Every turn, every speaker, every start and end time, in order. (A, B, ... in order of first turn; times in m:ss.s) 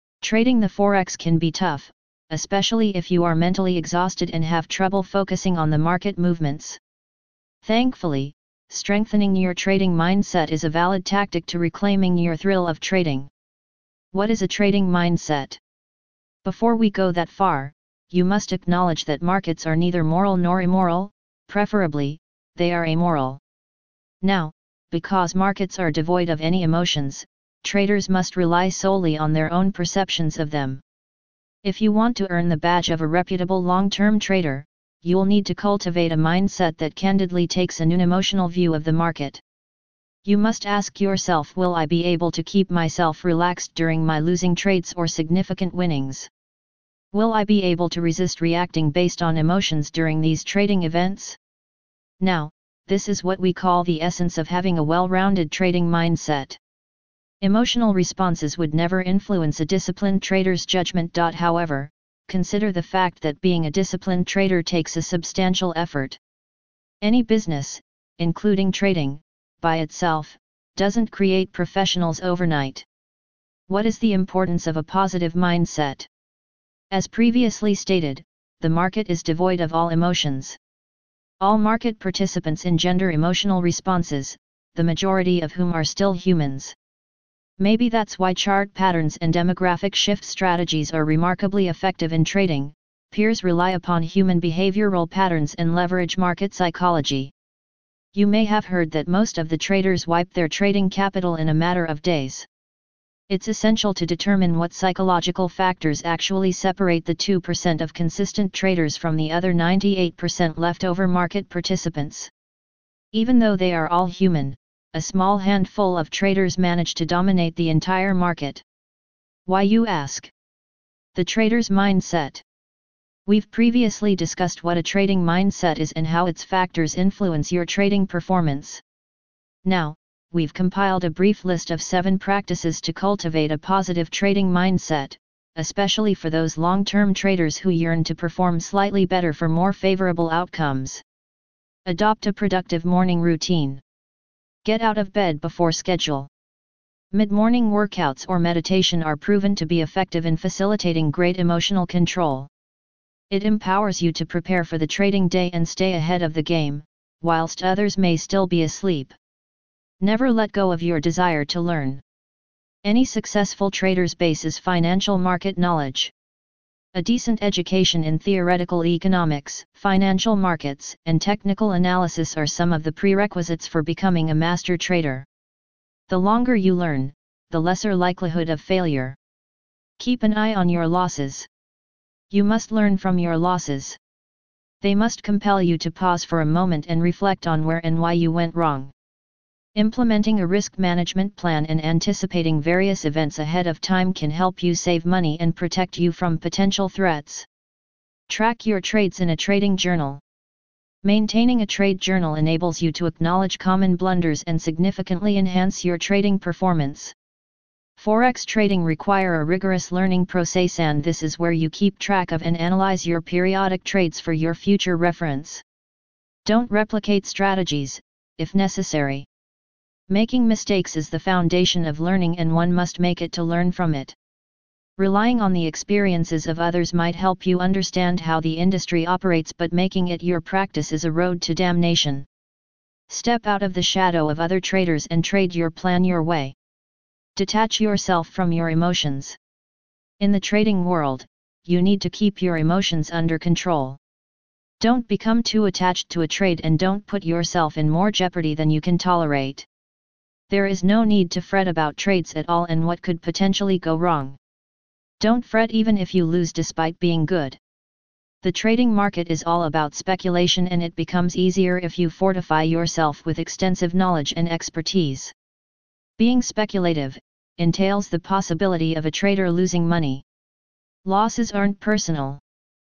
0:00.2-0:06.8 A
0:07.6-0:13.3 A
0:14.1-0:15.6 A
0:16.4-0:23.4 A
0:24.2-0:30.8 A
0:31.6-0:39.4 A
0:40.2-0:46.3 A
0:47.1-0:51.4 A
0:52.2-0:56.6 A
0:57.4-1:06.2 A
1:07.0-1:12.8 A
1:13.7-1:16.1 A
1:16.9-1:20.6 A
1:21.4-1:26.7 A
1:27.6-1:37.3 A
1:38.1-1:42.5 A
1:43.3-1:52.3 A
1:53.1-1:58.6 A
1:59.4-2:00.3 A
2:01.1-2:02.4 A
2:03.2-2:08.8 A
2:09.6-2:21.0 A
2:21.8-2:23.8 A
2:24.6-2:26.3 A
2:27.1-2:32.5 A
2:33.3-2:39.1 A
2:40.0-2:42.0 A
2:42.8-2:46.1 A
2:46.9-2:55.2 A
2:56.1-2:59.2 A
3:00.0-3:01.5 A
3:02.3-3:04.0 A
3:04.8-3:08.9 A
3:09.7-3:17.4 A
3:18.3-3:20.2 A
3:21.0-3:27.1 A
3:28.0-3:35.6 A
3:36.4-3:39.3 A
3:40.1-3:44.1 A
3:45.0-3:52.3 A
3:53.1-3:56.5 A
3:57.4-3:59.4 A
4:00.2-4:04.0 A
4:04.8-4:09.6 A
4:10.5-4:14.4 A
4:15.2-4:17.6 A
4:18.4-4:25.3 A
4:26.2-4:30.2 A
4:31.0-4:32.4 A